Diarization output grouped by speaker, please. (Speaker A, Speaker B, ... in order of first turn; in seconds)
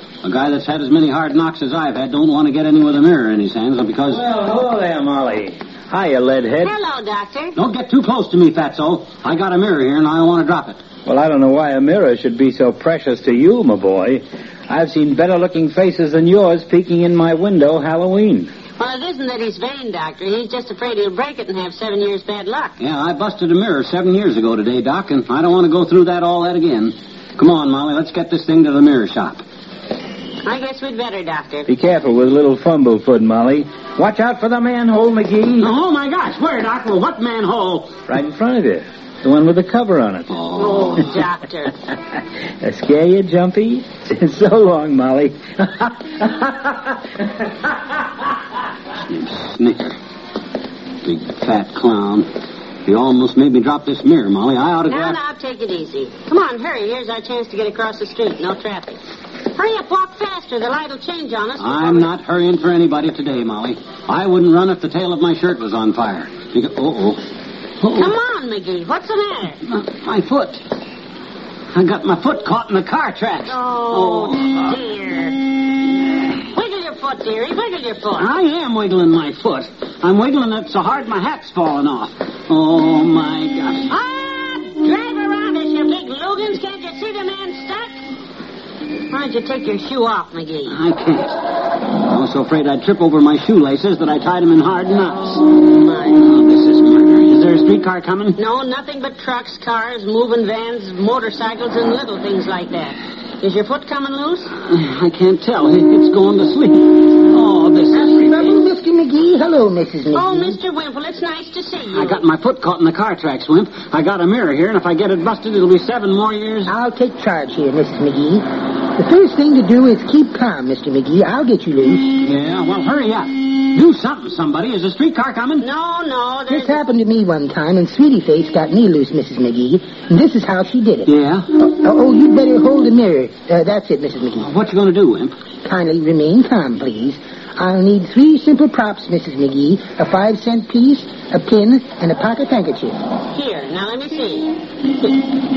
Speaker A: 0.2-4.3, 7.6-10.8, 22.8-29.4, 35.6-38.0, 40.3-41.1, 49.0-50.0, 51.0-52.3, 52.9-55.2, 61.6-67.2, 67.8-68.1, 69.7-70.6, 71.7-74.7, 78.2-83.9, 90.7-91.4, 92.0-95.5, 96.1-98.4, 104.7-108.6, 111.9-116.7, 122.2-125.7, 131.1-131.5, 134.4-135.3
Speaker B: 4.1-6.7, 11.1-18.5, 31.7-35.7, 38.1-40.4, 42.6-46.8
Speaker C: 6.6-7.5, 18.8-22.7, 30.4-31.7, 40.5-41.7, 54.9-62.1, 67.9-69.6, 73.5-75.5, 76.5-78.3, 83.9-88.0, 89.1-90.8, 95.8-96.2, 98.4-104.5, 110.1-112.2, 125.6-126.8, 143.3-145.3
Speaker D: 107.9-110.6, 116.7-122.1, 126.5-134.5, 135.6-143.0